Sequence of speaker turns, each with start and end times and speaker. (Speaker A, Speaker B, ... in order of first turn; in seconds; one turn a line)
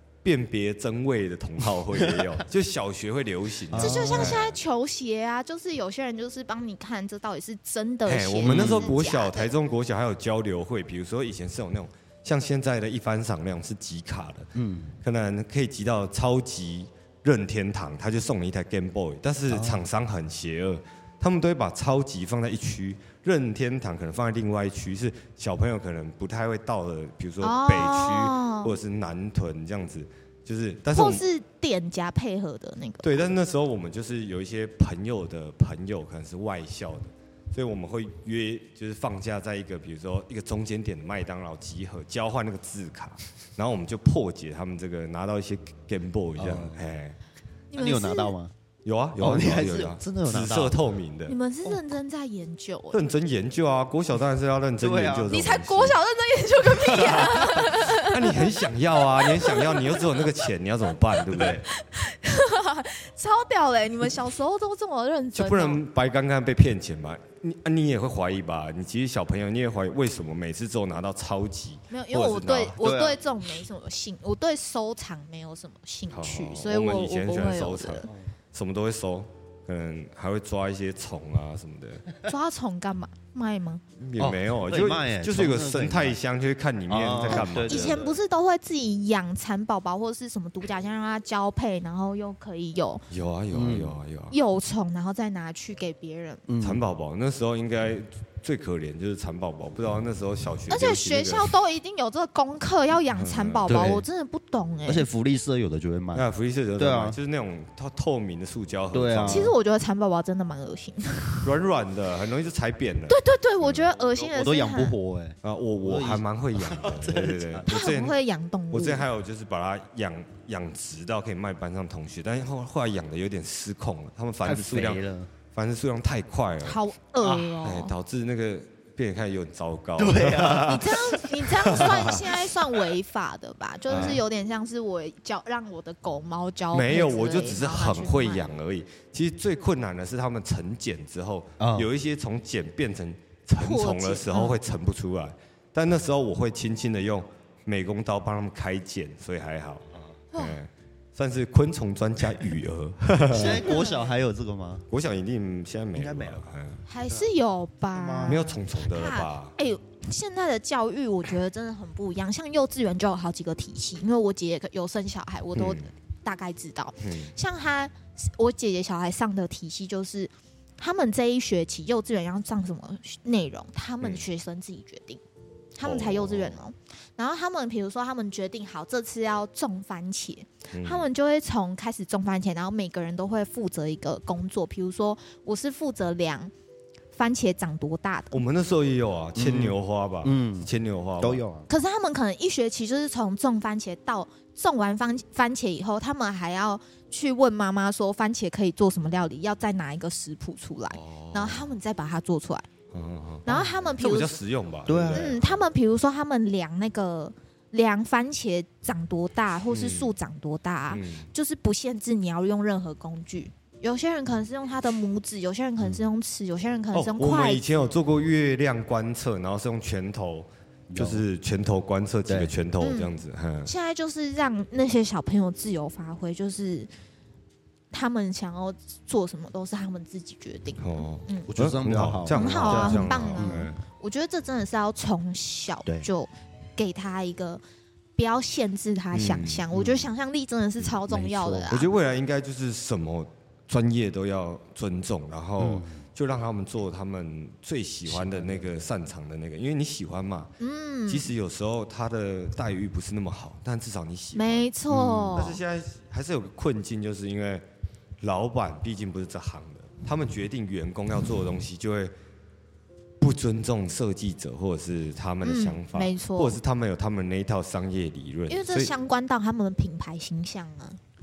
Speaker A: 0.2-4.6
Speaker B: 2.0-2.3
Speaker B: 3.7-4.4
Speaker C: 3.7-9.5
Speaker A: 8.0-14.5
Speaker B: 8.4-8.9
Speaker B: 14.5-14.9
Speaker A: 15.0-31.2
Speaker B: 19.5-19.9
Speaker C: 27.4-28.7
Speaker C: 30.9-33.2
Speaker A: 33.0-47.2
Speaker B: 46.4-46.8
Speaker C: 47.7-48.3
Speaker B: 47.7-48.5
Speaker A: 48.8-51.3
Speaker B: 49.2-50.8
Speaker C: 51.3-53.0
Speaker A: 52.9-56.0
Speaker B: 54.8-55.4
Speaker C: 55.3-58.5
Speaker A: 56.8-61.6
Speaker C: 59.2-60.4
Speaker B: 61.3-61.6
Speaker C: 61.4-65.8
Speaker A: 65.3-72.8
Speaker C: 71.9-78.1
Speaker B: 72.8-73.2
Speaker A: 76.1-82.1
Speaker C: 82.2-83.8
Speaker A: 84.0-88.0
Speaker B: 84.2-86.2
Speaker B: 86.9-88.2
Speaker C: 87.3-93.0
Speaker A: 93.1-94.3
Speaker B: 93.5-93.9
Speaker C: 94.3-96.4
Speaker B: 96.5-96.8
Speaker A: 96.6-101.5
Speaker C: 100.7-105.0
Speaker A: 103.2-103.8
Speaker B: 103.7-104.0
Speaker B: 104.8-107.2
Speaker A: 106.1-109.5
Speaker B: 108.9-109.5
Speaker C: 109.3-111.5
Speaker A: 111.4-113.9
Speaker C: 113.1-114.9
Speaker B: 114.2-117.7
Speaker A: 115.4-118.2
Speaker C: 117.7-119.0
Speaker A: 118.7-126.8
Speaker B: 124.4-125.3
Speaker C: 126.6-127.9
Speaker B: 127.2-127.5
Speaker A: 127.6-130.9
Speaker B: 130.0-132.2
Speaker C: 130.6-138.5
Speaker A: 131.6-132.3
Speaker A: 133.9-134.2
Speaker B: 133.9-134.2
Speaker A: 136.7-153.7
Speaker B: 141.6-141.9
Speaker C: 143.6-144.6
Speaker C: 150.3-150.6
Speaker B: 153.3-154.9
Speaker C: 153.6-154.1
Speaker A: 154.9-156.8
Speaker B: 155.9-156.4
Speaker C: 156.8-175.2
Speaker B: 157.9-158.4
Speaker A: 158.2-159.5
Speaker A: 165.5-165.9
Speaker A: 167.0-167.3
Speaker C: 175.7-186.5
Speaker A: 175.8-176.6
Speaker A: 180.7-181.1
Speaker C: 187.1-188.4
Speaker A: 188.3-191.4
Speaker B: 189.3-191.7
Speaker C: 191.7-202.7
Speaker A: 200.9-201.7
Speaker A: 202.9-205.4
Speaker C: 203.4-204.3
Speaker B: 204.9-205.4
Speaker C: 205.1-217.6
Speaker A: 209.7-210.1
Speaker A: 210.9-211.3
Speaker A: 216.9-223.7
Speaker B: 220.9-221.2
Speaker B: 222.3-222.5
Speaker C: 222.8-223.1
Speaker C: 223.6-226.9
Speaker C: 227.9-231.5
Speaker A: 230.8-233.8
Speaker B: 231.5-233.7
Speaker C: 232.3-237.6
Speaker C: 238.2-241.9
Speaker A: 239.1-239.6
Speaker B: 239.7-240.1
Speaker B: 241.1-241.7
Speaker A: 241.7-250.5
Speaker B: 245.6-246.0
Speaker B: 248.1-248.7
Speaker C: 250.6-251.3
Speaker A: 251.1-254.7
Speaker C: 254.3-255.6
Speaker B: 254.9-255.5
Speaker A: 255.3-257.6
Speaker A: 258.2-262.1
Speaker A: 263.2-268.9
Speaker C: 265.4-266.6
Speaker C: 268.5-271.0